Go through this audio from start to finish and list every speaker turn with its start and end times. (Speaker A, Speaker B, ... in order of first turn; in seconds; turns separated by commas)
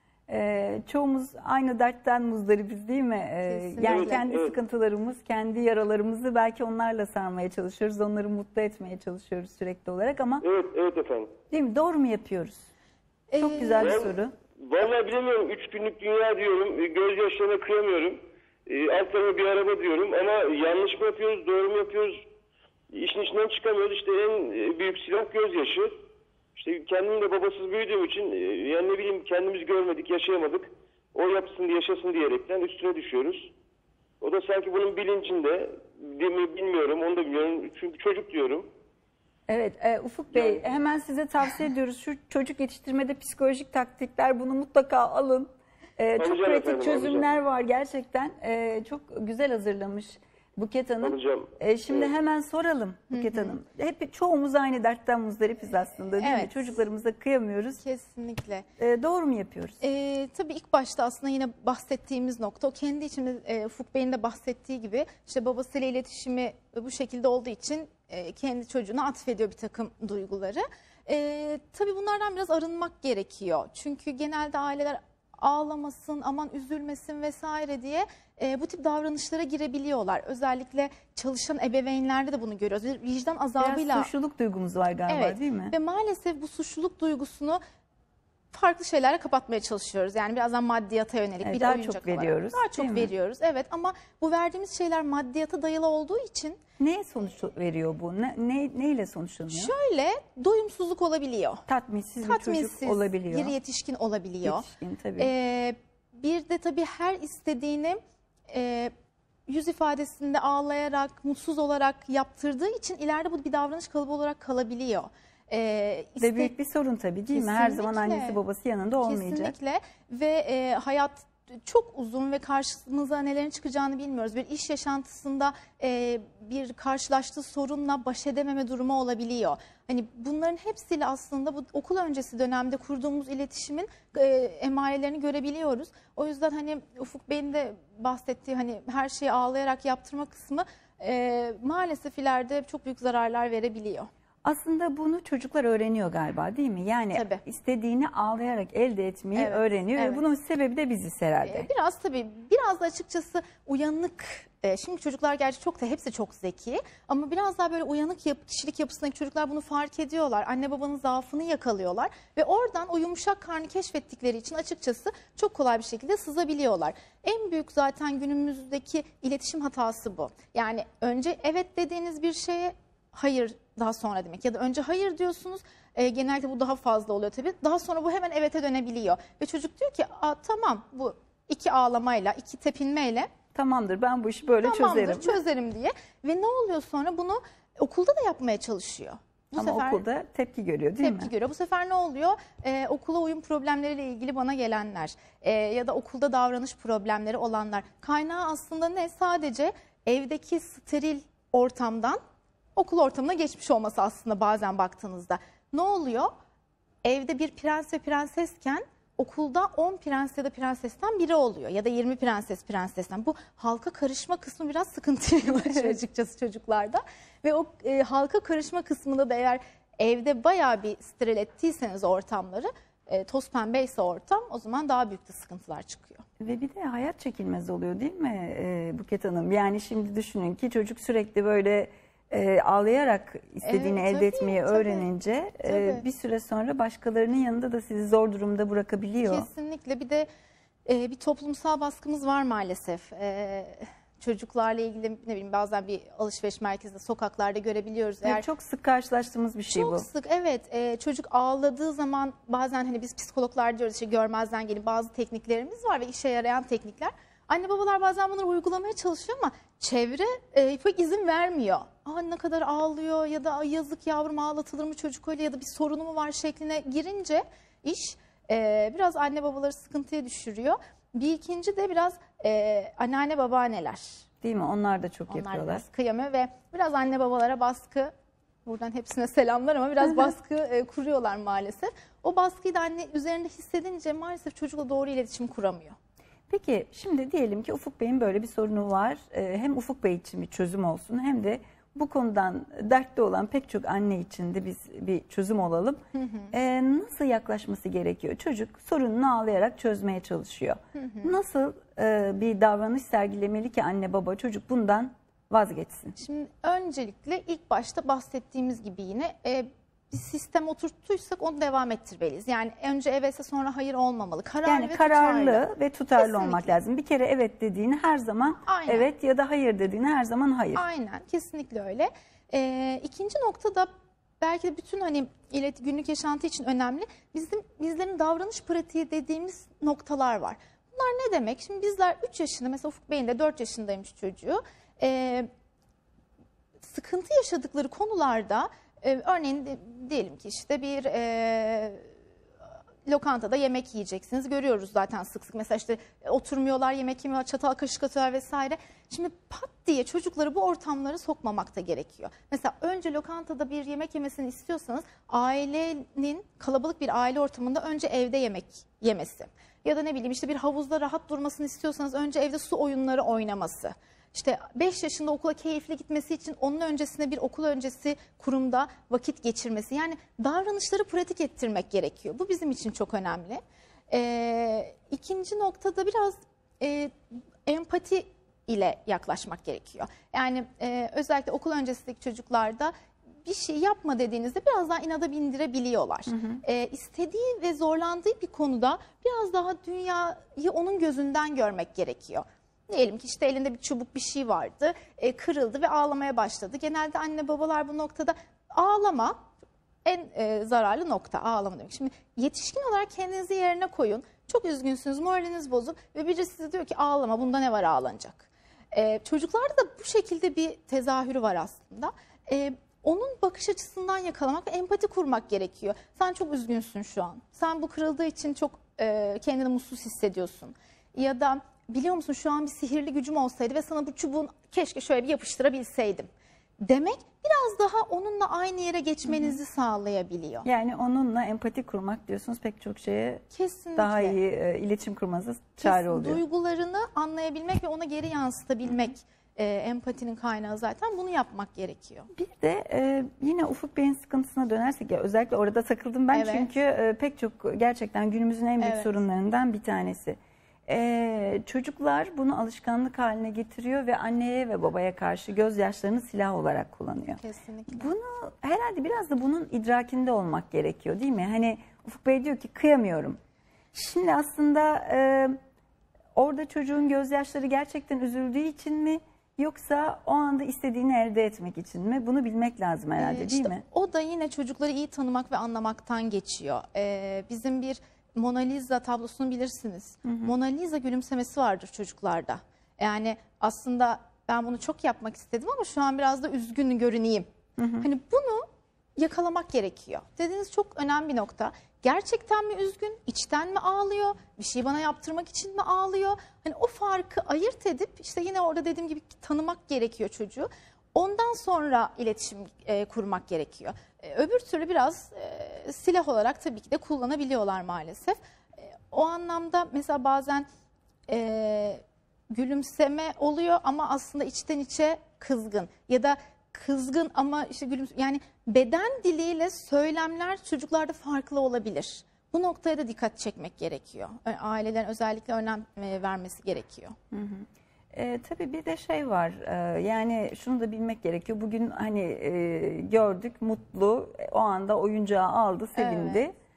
Speaker A: 0.3-10.4, Speaker B: 3.5-4.2, Speaker C: 3.8-4.5, Speaker C: 10.4-11.3, Speaker A: 11.5-12.7, Speaker B: 13.3-13.9, Speaker A: 13.4-14.3, Speaker C: 13.8-22.2, Speaker C: 22.9-25.9, Speaker C: 26.6-33.5, Speaker C: 34.2-38.7, Speaker A: 39.5-57.8, Speaker C: 46.2-47.2, Speaker C: 51.0-52.1, Speaker B: 53.1-53.5, Speaker B: 56.2-56.6, Speaker B: 57.8-58.7, Speaker A: 58.8-59.8, Speaker B: 59.8-84.1, Speaker A: 83.6-85.8, Speaker B: 85.1-87.6, Speaker B: 88.5-96.6, Speaker A: 91.4-93.1, Speaker A: 96.8-99.7, Speaker B: 99.5-101.6, Speaker A: 101.7-103.5, Speaker B: 102.2-108.9, Speaker A: 104.4-105.3, Speaker B: 109.5-116.5, Speaker A: 116.2-119.5, Speaker B: 117.3-118.4, Speaker B: 119.0-144.1, Speaker A: 144.4-151.7, Speaker B: 147.1-147.4, Speaker B: 149.4-150.2, Speaker B: 151.4-183.3, Speaker A: 183.5-185.4, Speaker B: 184.6-190.0, Speaker A: 189.6-191.3, Speaker B: 191.0-202.2, Speaker B: 202.8-206.3, Speaker B: 207.0-226.2, Speaker A: 226.4-239.5, Speaker B: 233.6-235.1, Speaker B: 235.6-236.0, Speaker B: 239.2-240.3, Speaker B: 240.9-248.4, Speaker A: 248.2-250.1, Speaker B: 249.7-274.2, Speaker A: 274.4-275.8, Speaker B: 275.3-278.1, Speaker B: 278.6-286.0, Speaker A: 286.5-306.2, Speaker B: 296.1-296.5, Speaker B: 301.0-301.3, Speaker B: 306.2-316.8, Speaker A: 314.6-320.8, Speaker B: 318.7-319.1, Speaker B: 320.8-335.5, Speaker B: 336.8-342.1, Speaker B: 343.1-399.4, Speaker A: 386.3-386.6, Speaker B: 400.1-426.3, Speaker B: 426.8-430.7, Speaker A: 429.3-429.6, Speaker A: 430.6-436.4, Speaker B: 433.5-434.4, Speaker B: 435.8-442.3, Speaker A: 442.3-463.4, Speaker B: 446.3-446.7, Speaker B: 448.8-449.1, Speaker B: 457.4-458.1, Speaker A: 463.9-465.6, Speaker A: 466.4-473.8, Speaker B: 473.2-487.5, Speaker A: 480.2-480.5, Speaker A: 487.8-488.1, Speaker B: 488.0-510.7, Speaker B: 511.3-527.2, Speaker A: 527.3-536.5, Speaker B: 536.0-536.4